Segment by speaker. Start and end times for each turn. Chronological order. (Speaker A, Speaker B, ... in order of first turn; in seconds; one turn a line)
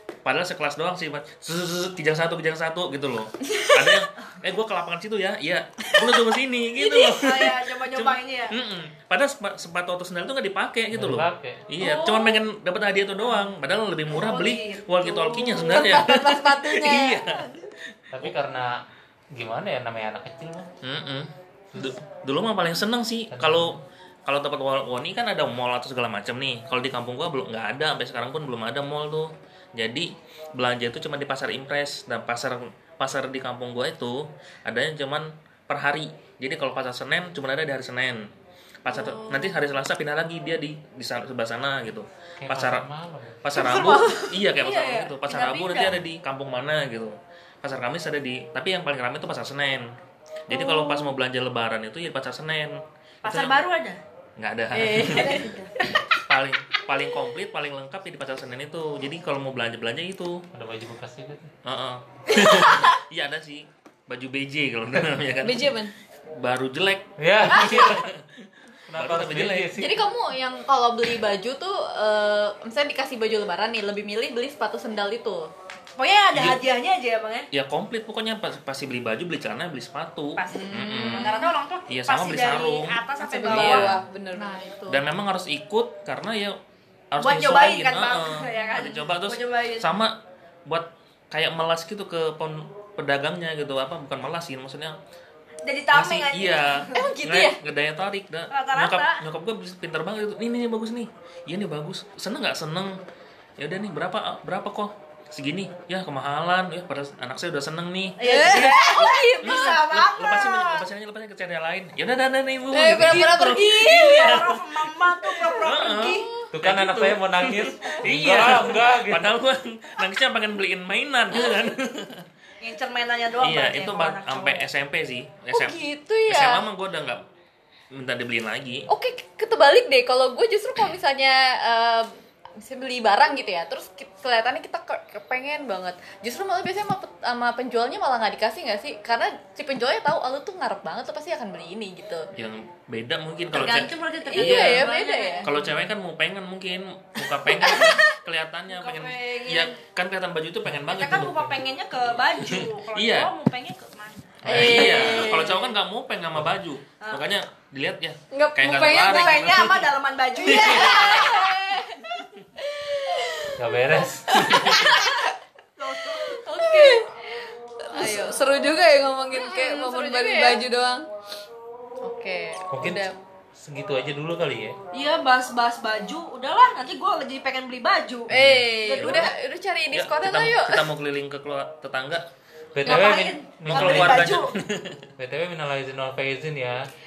Speaker A: 0.2-17.5
Speaker B: 6.8-8.6
Speaker C: 10.9-11.7
Speaker D: 11.8-12.3
Speaker B: 14.1-15.5
Speaker E: 15.1-17.2
Speaker C: 18.1-18.8
Speaker C: 19.3-20.7
Speaker A: 20.8-38.3
Speaker C: 23.3-23.8
Speaker A: 38.8-42.9
Speaker B: 38.9-39.5
Speaker C: 42.4-43.4
Speaker A: 43.4-49.9
Speaker B: 43.5-46.0
Speaker A: 50.5-53.6
Speaker B: 50.5-51.1
Speaker B: 53.2-54.0
Speaker A: 54.4-55.4
Speaker B: 54.8-55.5
Speaker D: 54.8-55.3
Speaker E: 54.9-55.7
Speaker A: 56.2-60.4
Speaker C: 60.5-61.5
Speaker A: 61.6-65.8
Speaker E: 65.4-65.9
Speaker A: 66.4-68.2
Speaker C: 67.2-68.1
Speaker C: 68.9-70.1
Speaker A: 68.9-69.7
Speaker D: 69.7-75.5
Speaker B: 76.0-77.5
Speaker A: 76.3-76.6
Speaker A: 77.5-84.0
Speaker B: 80.3-83.9
Speaker E: 80.5-81.5
Speaker E: 83.2-84.6
Speaker D: 84.3-85.0
Speaker A: 84.9-86.6
Speaker A: 87.1-90.2
Speaker B: 87.2-90.0
Speaker A: 90.7-95.0
Speaker B: 95.6-97.0
Speaker A: 95.9-103.0
Speaker D: 96.9-97.6
Speaker B: 98.5-99.2
Speaker A: 103.6-114.6
Speaker B: 108.2-110.8
Speaker E: 108.2-109.6
Speaker E: 112.7-114.4
Speaker D: 112.9-114.3
Speaker B: 113.7-116.3
Speaker A: 115.4-122.2
Speaker C: 116.5-119.3
Speaker B: 122.6-124.7
Speaker A: 123.4-127.2
Speaker D: 125.5-126.7
Speaker A: 127.9-128.9
Speaker D: 128.9-142.3
Speaker A: 142.3-151.4
Speaker B: 143.5-145.5
Speaker D: 143.6-145.6
Speaker D: 147.6-147.9
Speaker B: 148.7-149.8
Speaker B: 150.9-154.8
Speaker C: 151.1-151.5
Speaker A: 152.0-153.3
Speaker A: 154.4-159.9
Speaker D: 154.5-155.6
Speaker E: 154.5-155.6
Speaker E: 158.3-159.7
Speaker B: 158.8-161.4
Speaker A: 160.4-161.4
Speaker D: 160.8-162.1
Speaker D: 162.8-163.5
Speaker C: 163.6-164.8
Speaker A: 164.4-164.9
Speaker E: 164.8-165.2
Speaker B: 165.8-166.4
Speaker D: 166.3-167.1
Speaker E: 166.6-167.0
Speaker D: 167.9-168.7
Speaker E: 167.9-171.1
Speaker D: 169.3-170.6
Speaker D: 172.0-173.1
Speaker C: 172.7-174.8
Speaker B: 174.9-178.3
Speaker A: 178.3-179.3
Speaker C: 178.3-178.7
Speaker D: 178.3-180.9
Speaker B: 178.8-179.3
Speaker A: 179.9-182.3
Speaker C: 182.7-184.4
Speaker B: 182.8-184.5
Speaker A: 183.7-185.0
Speaker C: 185.2-186.8